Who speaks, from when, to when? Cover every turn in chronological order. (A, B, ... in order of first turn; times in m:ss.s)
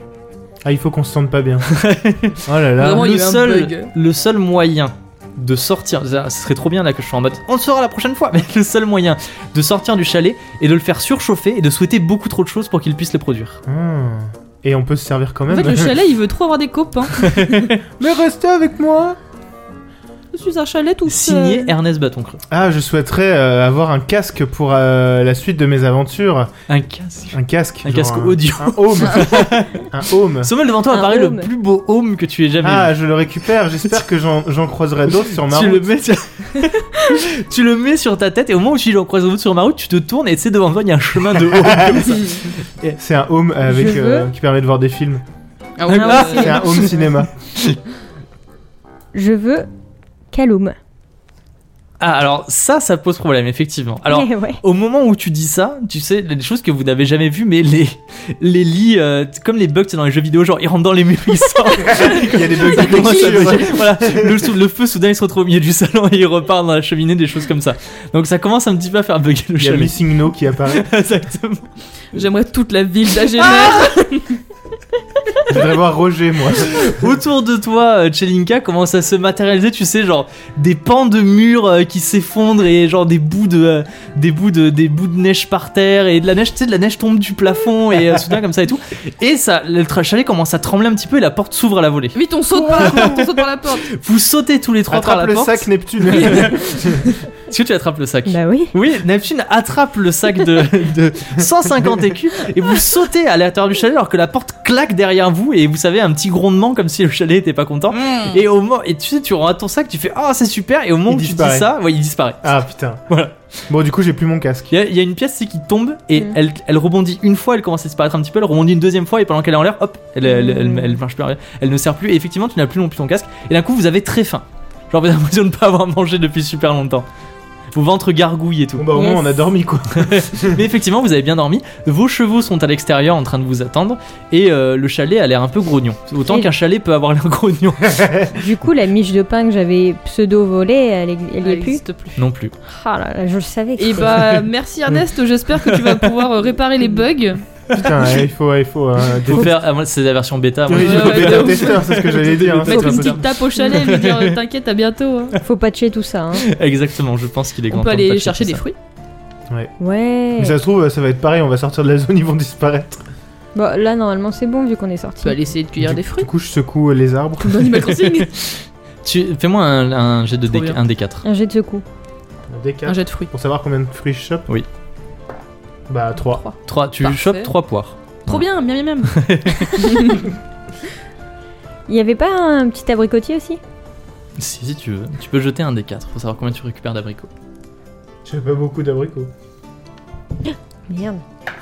0:00.6-0:01.7 A
0:01.7-0:13.6 B
0:02.4-0:03.1 A
0:02.8-0:03.9 C
0:13.7-0:16.0 A
0:15.5-0:17.4 C
0:17.2-0:17.8 B
0:18.0-0:19.2 A
0:20.3-0:21.7 C
0:21.1-0:22.4 B
0:22.5-0:26.5 A
0:26.7-0:33.0 B
0:27.3-0:30.5 A
0:30.9-0:31.5 D
0:32.6-0:35.9 A
0:35.4-0:43.0 B
0:41.4-0:42.2 A
0:43.0-0:45.2 A
0:43.7-0:44.3 D
0:45.8-0:46.9 C
0:45.9-0:46.9 B
0:46.0-0:46.9 D
0:46.1-0:47.3 A
0:47.4-0:47.8 B
0:49.1-0:49.7 D
0:50.3-0:50.8 D
0:52.0-1:10.0 B
0:54.1-0:54.6 D
1:01.8-1:04.5 A
1:02.6-1:03.6 C
1:09.6-1:10.9 A
1:10.7-1:11.7 B
1:12.1-1:14.4 C
1:15.5-1:16.9 A
1:16.6-1:33.3 B
1:32.1-1:33.9 C
1:33.8-1:36.8 B
1:34.9-1:37.0 A
1:36.2-1:36.5 C
1:37.5-1:52.5 B
1:38.3-1:38.7 D
1:47.9-1:48.4 C
1:51.1-1:51.7 A
1:52.4-1:53.0 A
1:53.1-1:53.4 B
1:53.7-1:54.7 A
1:54.7-2:07.1 B
2:00.3-2:01.0 D
2:07.7-2:08.9 B
2:08.8-2:10.6 A
2:08.9-2:09.3 D
2:10.0-2:18.2 B
2:17.9-2:18.3 A
2:18.3-2:21.8 D
2:21.4-2:22.2 C
2:22.2-2:22.5 B
2:22.6-2:24.2 D
2:23.8-2:27.4 C
2:25.7-2:26.0 B
2:27.7-2:29.5 A
2:29.2-2:34.4 B
2:30.7-2:33.2 A
2:30.7-2:35.4 C
2:32.9-2:33.8 D
2:35.4-2:36.4 D
2:36.4-2:38.6 B
2:37.7-2:38.8 C
2:39.8-2:40.6 D
2:40.4-2:43.0 A
2:43.6-2:45.4 D
2:45.2-2:46.3 C
2:45.8-2:47.8 A
2:47.4-2:48.3 C
2:48.2-2:51.2 B
2:50.5-2:50.8 C
2:51.2-2:51.8 D
2:52.5-2:54.5 A
2:52.9-2:53.3 C
2:55.9-2:56.4 A
2:56.3-2:57.5 C
2:56.7-2:58.4 B
2:58.3-3:00.3 C
2:59.1-3:00.1 B
3:01.9-3:03.6 D
3:04.4-3:07.3 B
3:08.2-3:09.3 A
3:10.5-3:11.2 D